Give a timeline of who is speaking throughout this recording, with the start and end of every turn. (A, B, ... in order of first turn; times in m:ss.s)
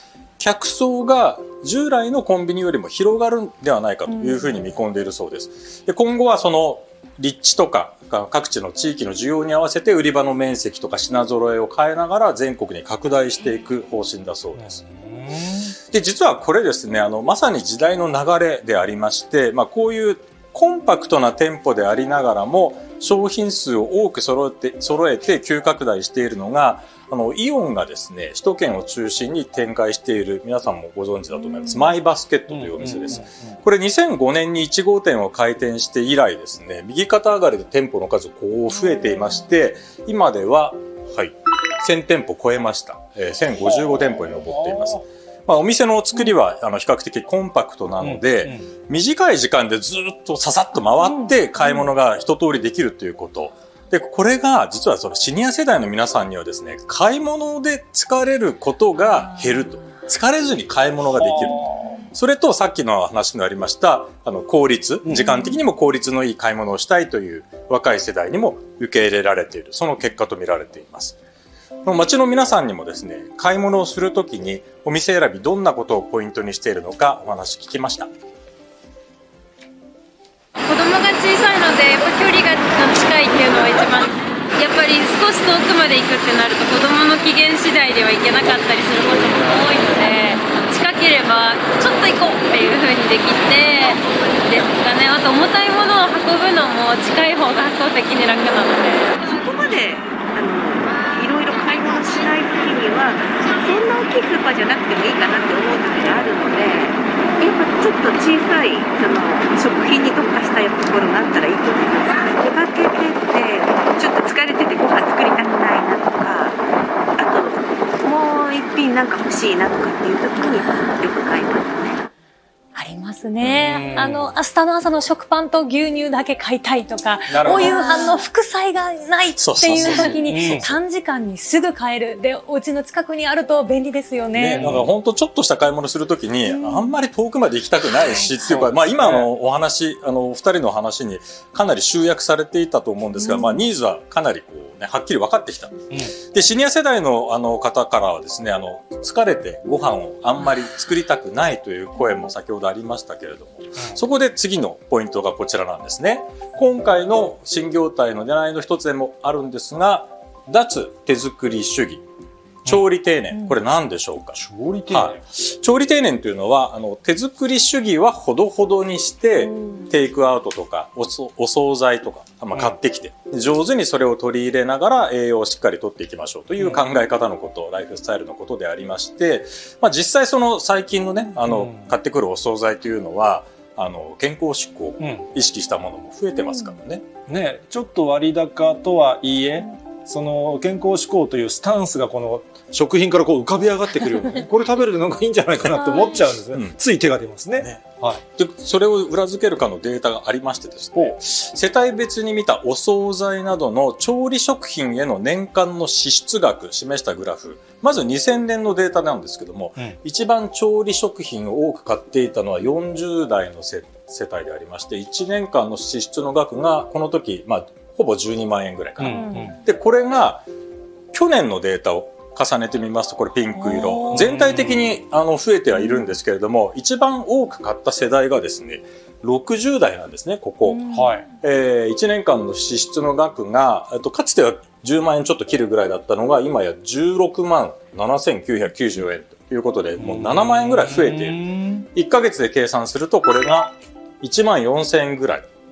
0:00.4-0:14.8 A
0:14.6-0:15.7 B
0:15.9-1:11.2 A
0:32.5-0:33.5 B
0:43.6-0:45.0 B
0:48.0-0:48.7 B
0:51.2-0:51.8 C
1:01.2-1:01.9 B
1:05.0-1:05.4 B
1:11.8-1:18.1 A
1:20.7-1:39.2 D
1:39.2-1:56.6 E
1:57.2-2:02.1 E
2:02.7-2:14.7 C
2:03.5-2:04.3 B
2:07.3-2:07.9 B
2:09.4-2:10.8 A
2:10.0-2:10.7 B
2:14.3-2:42.0 A
2:14.5-2:14.9 B
2:16.6-2:16.9 C
2:18.0-2:18.3 C
2:18.4-2:19.3 B
2:23.2-2:23.6 C
2:42.6-2:44.4 A
2:44.3-2:45.2 B
2:44.9-3:07.0 A
3:01.4-3:01.9 B
3:05.0-3:05.2 B
3:07.3-3:18.2 B
3:18.3-3:40.4 A
3:39.0-3:39.6 B
3:41.1-4:05.5 A
3:43.6-3:43.9 C
3:44.1-3:45.0 B
3:50.9-3:51.2 B
4:00.0-4:01.8 B